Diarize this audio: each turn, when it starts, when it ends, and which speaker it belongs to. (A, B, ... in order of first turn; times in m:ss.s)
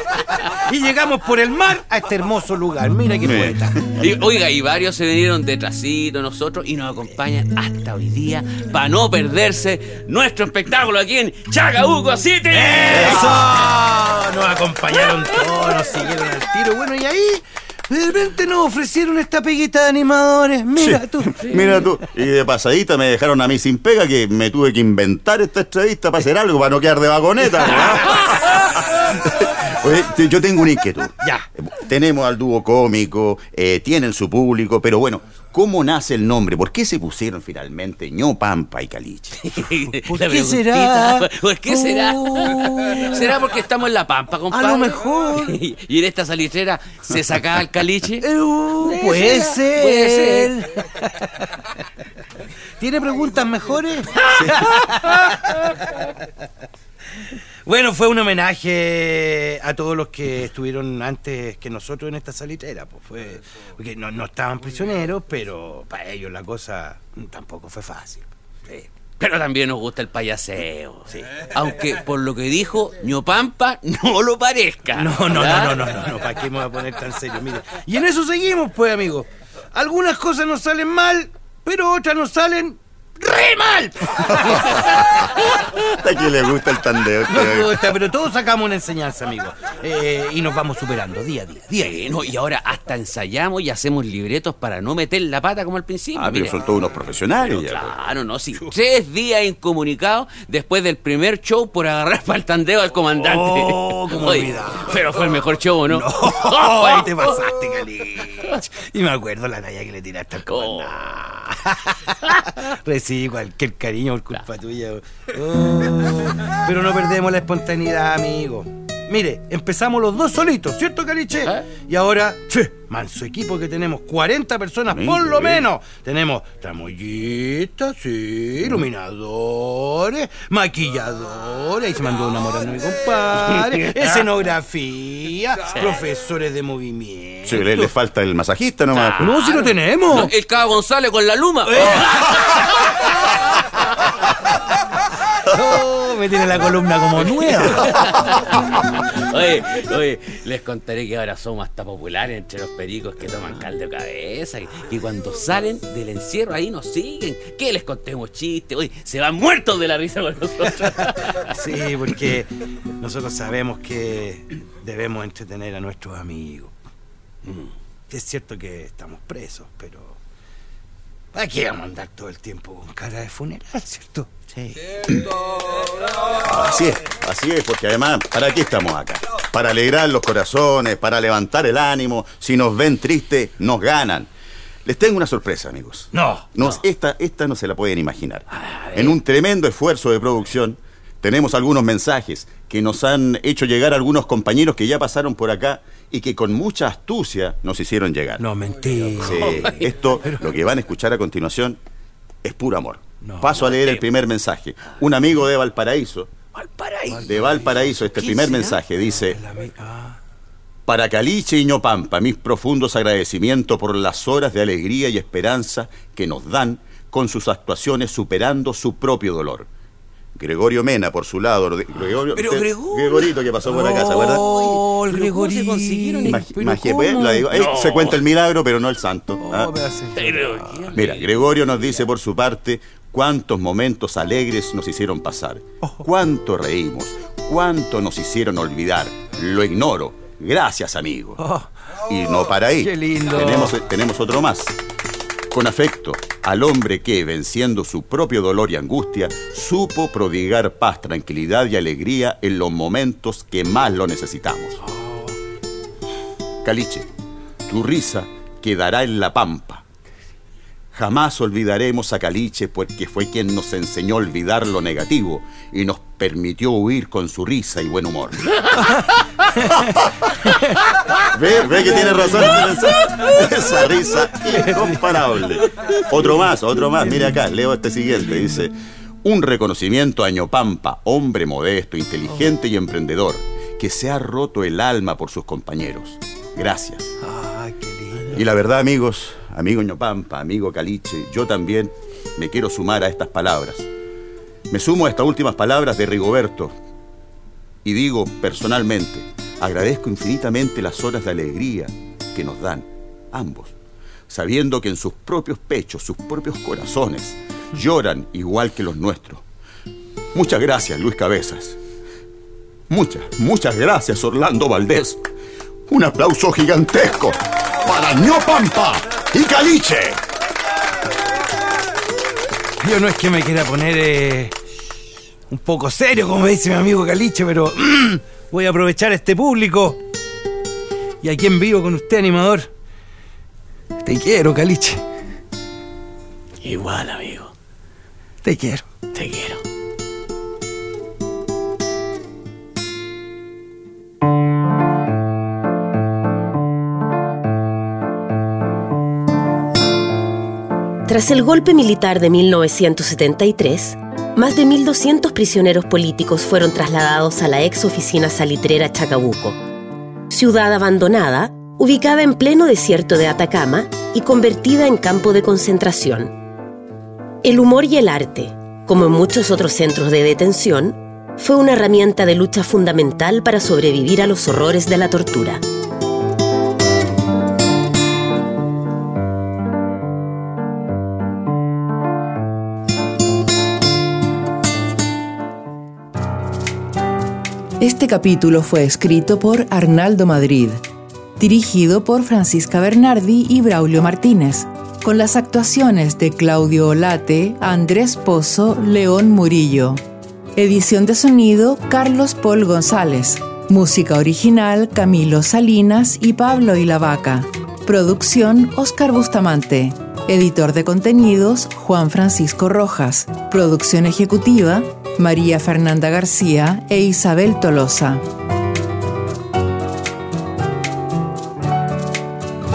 0:00.7-0:03.8 A
0:03.2-0:04.0 B
0:04.0-0:13.3 C
0:12.5-0:21.3 A
0:12.9-0:13.5 B
0:20.8-0:39.4 B
0:39.4-0:48.3 C
0:40.1-0:42.8 A
0:44.5-0:45.6 A
0:48.3-0:51.5 A
0:48.8-0:50.6 C
0:52.8-0:55.8 A
0:57.6-1:08.9 A
1:09.2-1:15.9 C
1:15.0-1:24.1 A
1:24.4-1:24.9 C
1:24.5-1:24.9 B
1:25.9-1:27.8 B
1:27.3-1:32.0 A
1:31.8-1:36.5 C
1:36.1-1:37.9 B
1:37.4-1:47.3 C
1:43.2-1:45.0 A
1:45.9-2:17.8 A
1:50.5-1:51.2 C
1:52.2-1:52.5 C
2:01.4-2:01.7 C
2:04.9-2:05.6 B
2:13.6-2:14.2 C
2:17.5-2:19.2 B
2:18.9-2:22.9 C
2:19.2-2:20.3 A
2:25.5-2:27.8 A
2:27.2-2:41.5 C
2:41.5-2:42.5 A
2:43.0-2:46.7 A
2:48.1-2:50.2 A
2:51.3-2:54.4 A
2:56.4-3:04.3 B
3:04.8-3:18.4 B
3:06.1-3:06.4 A
3:08.6-3:09.2 C
3:18.4-3:19.5 A
3:19.2-3:21.8 B
3:19.4-3:19.7 C
3:22.4-3:26.3 B
3:23.2-3:23.5 A
3:23.6-3:24.0 C
3:26.5-3:27.3 C
3:27.1-3:27.7 A
3:27.2-3:29.4 B
3:28.0-3:28.8 C
3:29.3-3:30.2 A
3:30.9-3:39.7 B
3:40.3-3:44.4 B
3:42.3-3:43.1 C
3:42.4-3:47.5 A
3:44.4-3:46.4 C
3:46.2-3:49.7 B
3:47.5-3:48.2 C
3:49.4-3:50.9 A
3:50.1-3:51.3 C
3:50.9-4:01.4 B
4:01.4-4:01.7 A
4:02.0-4:04.8 B
4:02.8-4:03.7 A
4:05.5-4:14.8 B
4:16.6-4:17.0 B
4:17.7-4:19.8 B
4:20.9-4:29.0 B
4:29.6-4:30.5 B
4:31.2-4:47.1 B
4:47.2-4:48.3 A
4:48.3-4:53.9 B
4:54.7-4:56.7 B
4:57.8-5:03.7 B
5:04.3-5:09.4 B
5:10.3-5:11.8 B
5:12.9-5:15.2 B
5:15.9-5:20.2 B
5:22.8-5:24.5 A
5:25.5-5:30.0 A
5:31.2-5:32.7 A
5:34.0-5:35.0 A
5:36.6-5:37.5 C
5:38.4-5:38.9 A
5:39.1-5:39.6 C
5:51.1-5:59.6 D
6:00.3-6:06.3 D
6:07.4-6:15.6 D
6:27.8-6:30.8 E
6:31.4-6:40.0 E
6:40.6-6:58.2 E